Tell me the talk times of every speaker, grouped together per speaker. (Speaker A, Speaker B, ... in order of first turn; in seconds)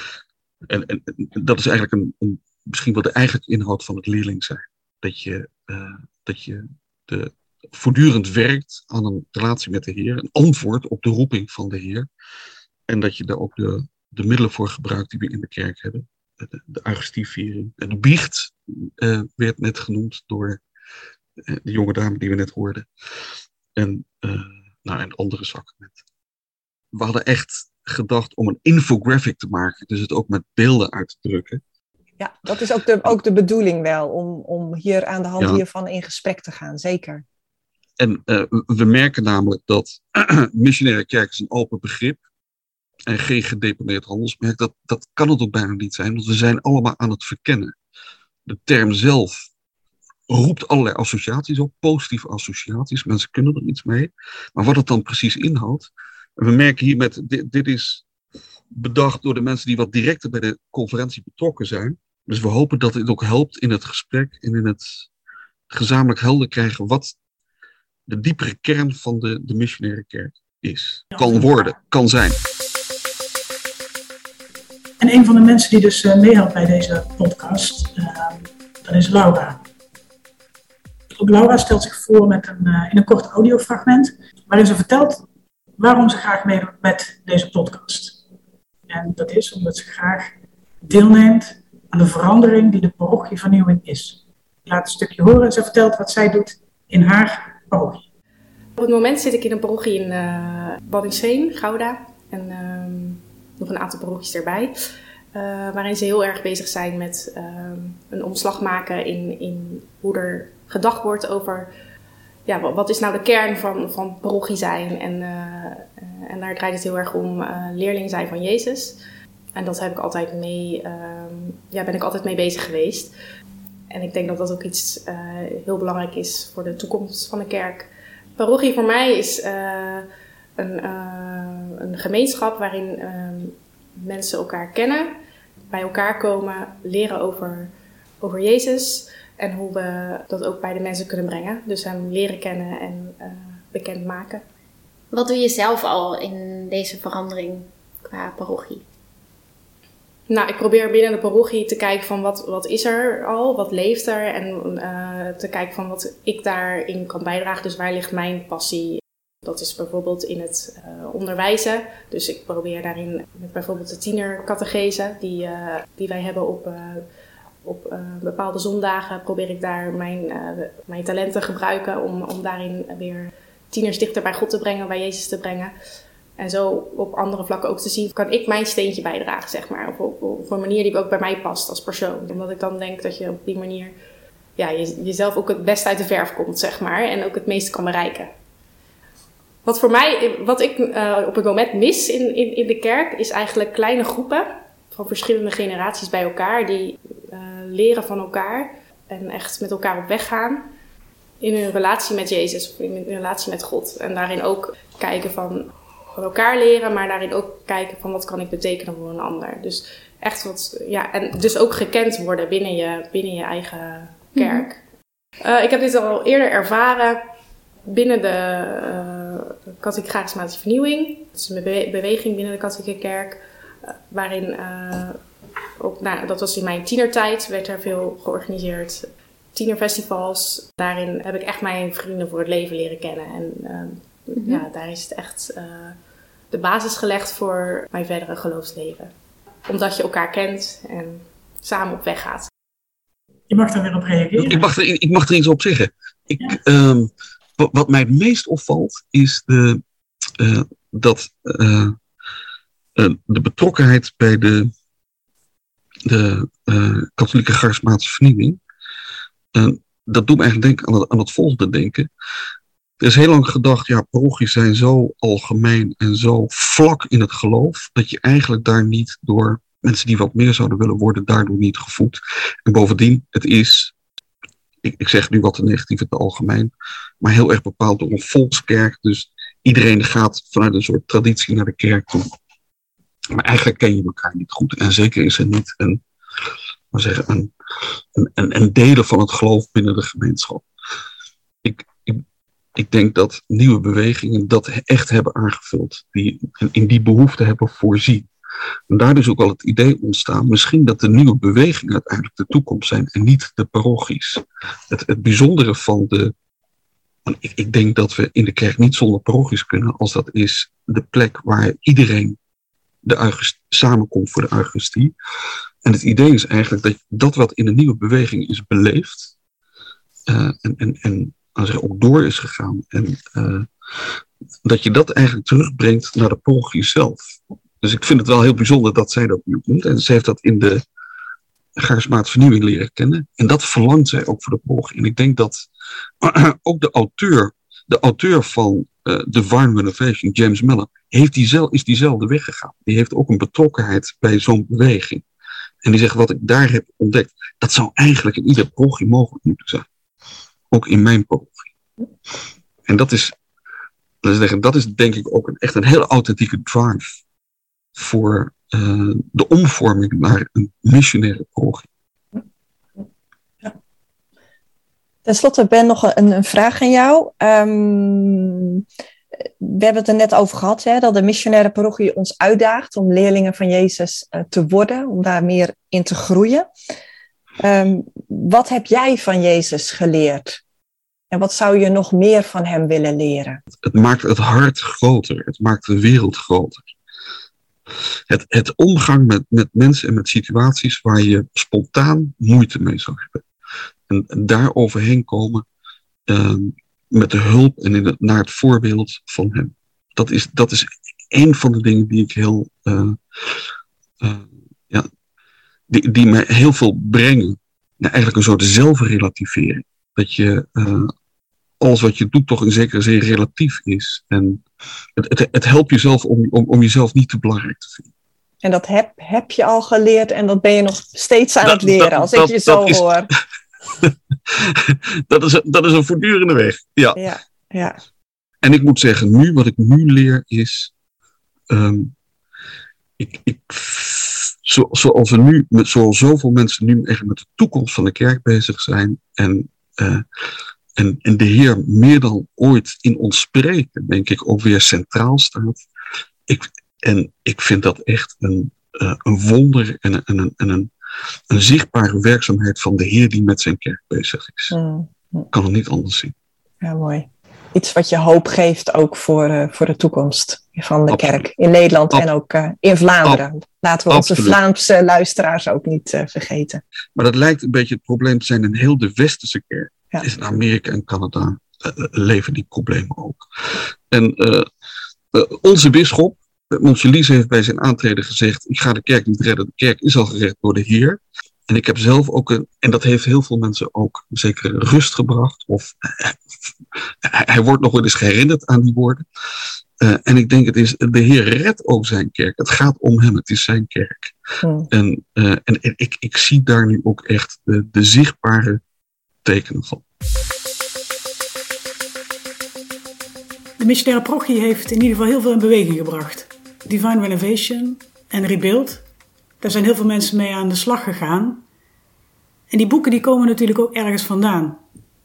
Speaker A: 0.7-12.1, 12.9-20.6, 21.4-22.9, 23.8-26.0, 26.9-31.6, 38.0-42.2, 43.1-47.8, 48.5-49.5, 50.3-58.0, 58.7-65.1, 65.7-67.2, 68.1-72.4, 244.4-249.8, 250.4-252.0, 252.9-254.7, 256.1-258.6, 259.5-262.1, 263.0-273.9, 274.8-282.3, 283.3-286.0, 286.9-287.5, 288.1-290.6, 291.6-292.2, 292.8-298.3, 298.9-306.3, 307.3-312.4, 313.0-315.1, 315.8-319.3, 320.3-330.8, 331.8-335.7, 336.2-345.2, 345.8-349.9, 350.7-351.7, 352.9-353.4, 354.2-357.2, 357.9-361.9, 383.8-386.9, 388.3-393.4, 394.1-395.6, 396.3-403.6, 404.2-405.1, 405.9-411.1, 411.8-414.6, 415.2-418.1, 421.6-423.1, 424.0-427.2, 428.6-430.9, 431.7-432.1, 433.2-440.2, 441.0-445.8, 446.5-450.9, 451.5-454.8, 455.5-456.3, 461.1-461.4, 464.1-464.6, 467.1-474.7, 475.3-486.4, 487.2-489.2, 490.0-494.4, 494.9-498.8, 499.4-500.0
Speaker B: 32.2-37.2, 365.2-368.8, 369.4-376.7, 377.6-380.6, 381.3-383.6, 418.6-423.3, 427.1-428.0, 454.7-455.5, 456.8-466.8, 494.6-494.9
Speaker C: 71.1-71.8, 75.0-79.6, 81.2-85.2, 85.8-88.2, 88.9-98.0, 243.5-244.7, 503.8-509.1, 509.6-511.6, 512.7-514.8
Speaker D: 98.8-104.7, 105.3-111.7, 112.5-119.0, 119.5-123.1, 123.9-135.1, 135.7-144.4, 150.3-167.1, 167.6-175.7, 176.4-183.9, 184.6-188.3, 189.6-200.7, 201.4-214.8, 215.4-217.3, 217.9-225.2, 225.8-236.0, 236.5-239.1, 239.7-242.5
Speaker E: 145.1-148.8, 214.4-214.7, 234.4-234.6